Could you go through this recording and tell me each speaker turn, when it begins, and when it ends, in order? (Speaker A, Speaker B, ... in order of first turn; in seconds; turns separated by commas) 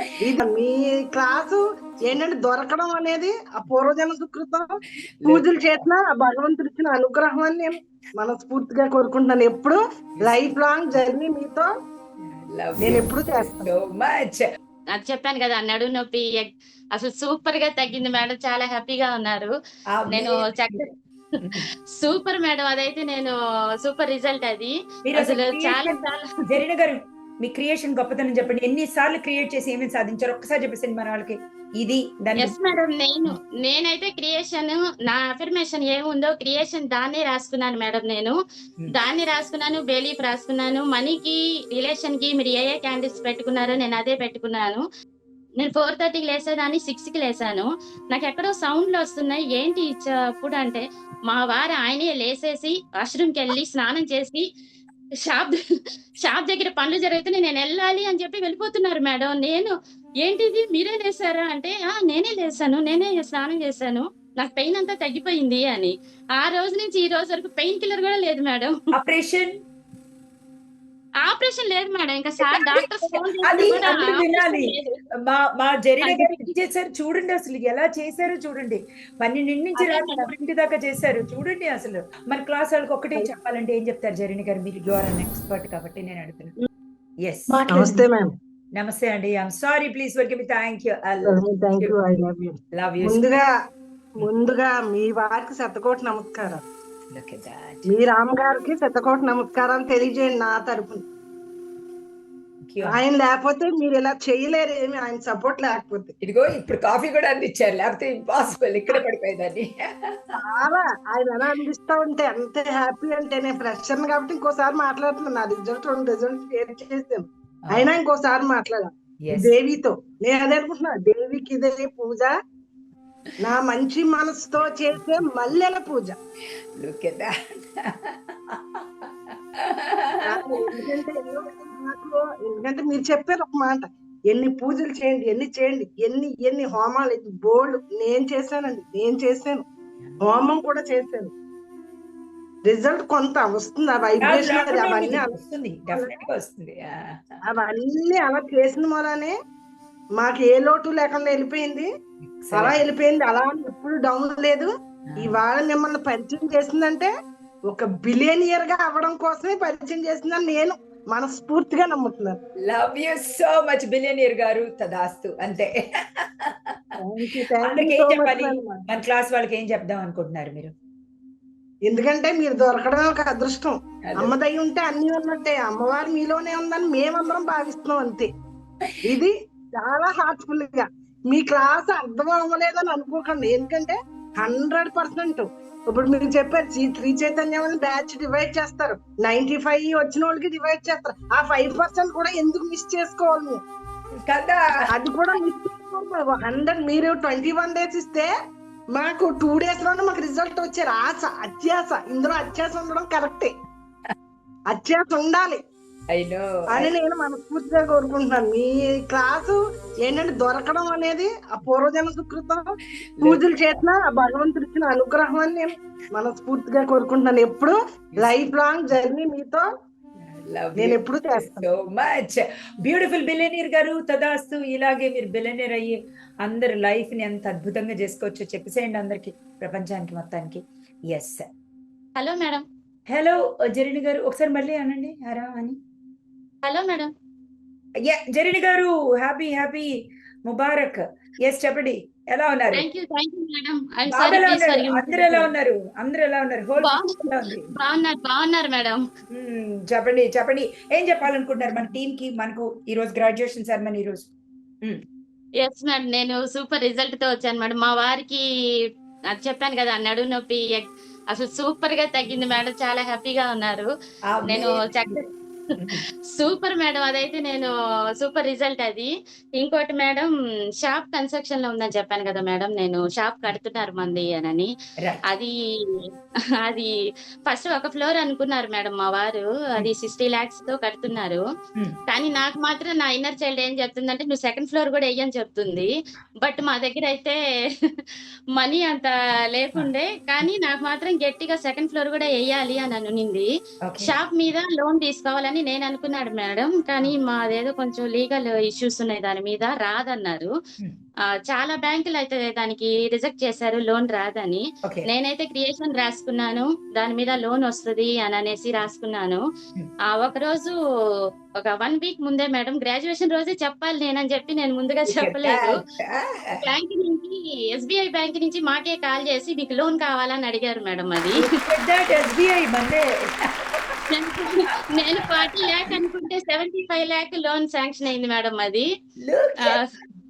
Speaker A: 0.2-4.7, Speaker B: 5.2-5.5, Speaker A: 5.3-11.7, Speaker B: 10.2-10.4, Speaker B: 12.2-14.4, Speaker A: 12.8-13.7, Speaker C: 14.9-19.5, Speaker B: 20.0-20.9, Speaker C: 20.1-20.9, Speaker C: 21.6-26.3, Speaker B: 25.1-26.0, Speaker B: 26.5-32.6, Speaker C: 32.4-38.4, Speaker C: 38.9-44.8, Speaker C: 45.6-54.5, Speaker C: 55.3-55.6, Speaker C: 56.2-68.7, Speaker B: 68.9-69.5, Speaker C: 71.2-74.9, Speaker B: 72.4-72.8, Speaker B: 73.4-74.7, Speaker B: 75.3-86.5, Speaker C: 76.0-76.5, Speaker C: 79.8-80.3, Speaker B: 87.2-88.0, Speaker A: 87.7-88.3, Speaker B: 88.8-92.0, Speaker A: 91.2-93.5, Speaker B: 92.7-93.4, Speaker A: 94.2-96.6, Speaker B: 97.1-97.9, Speaker A: 97.9-101.0, Speaker B: 102.6-103.0, Speaker A: 102.8-106.1, Speaker B: 106.2-109.9, Speaker A: 110.3-122.3, Speaker B: 117.7-118.0, Speaker B: 119.2-119.5, Speaker A: 123.4-126.2, Speaker B: 126.8-130.7, Speaker A: 130.3-139.6, Speaker A: 140.2-141.3, Speaker A: 142.7-145.4, Speaker B: 144.2-147.0, Speaker A: 145.9-146.2, Speaker A: 147.5-149.4, Speaker A: 150.2-151.9, Speaker B: 152.2-152.8, Speaker A: 152.5-157.1, Speaker B: 155.1-155.4, Speaker A: 157.7-162.4, Speaker B: 162.7-166.8, Speaker A: 167.0-168.9, Speaker B: 167.6-170.7, Speaker A: 171.9-178.3, Speaker B: 174.1-174.3, Speaker A: 179.0-193.6, Speaker B: 194.3-194.7, Speaker A: 194.9-198.3, Speaker A: 198.9-203.5, Speaker A: 204.7-205.6, Speaker B: 206.1-206.9, Speaker A: 206.7-212.6, Speaker A: 213.2-219.7, Speaker B: 218.1-218.5, Speaker B: 220.2-230.6, Speaker A: 220.8-221.7, Speaker B: 231.1-231.4, Speaker C: 232.2-232.6, Speaker B: 233.1-235.8, Speaker C: 236.6-237.1, Speaker B: 238.1-239.9, Speaker B: 240.5-242.8, Speaker C: 242.7-245.5, Speaker B: 244.1-247.7, Speaker C: 246.8-247.2, Speaker C: 247.8-249.0, Speaker B: 249.3-254.3, Speaker C: 255.6-258.4, Speaker C: 259.3-263.9, Speaker B: 264.3-265.2, Speaker C: 264.5-265.2, Speaker B: 265.8-266.0, Speaker C: 266.3-270.3, Speaker C: 270.8-274.7, Speaker C: 275.3-276.0, Speaker C: 276.6-276.9, Speaker C: 277.5-281.4, Speaker C: 282.1-287.4, Speaker C: 288.6-293.5, Speaker B: 289.8-290.4, Speaker B: 293.9-294.1, Speaker C: 294.0-300.5, Speaker C: 301.5-309.4, Speaker C: 310.1-310.8, Speaker C: 311.6-315.7, Speaker B: 315.1-316.6, Speaker C: 316.6-321.4, Speaker B: 321.4-323.1, Speaker C: 324.1-328.9, Speaker B: 325.2-326.0, Speaker B: 329.2-329.8, Speaker C: 329.6-329.9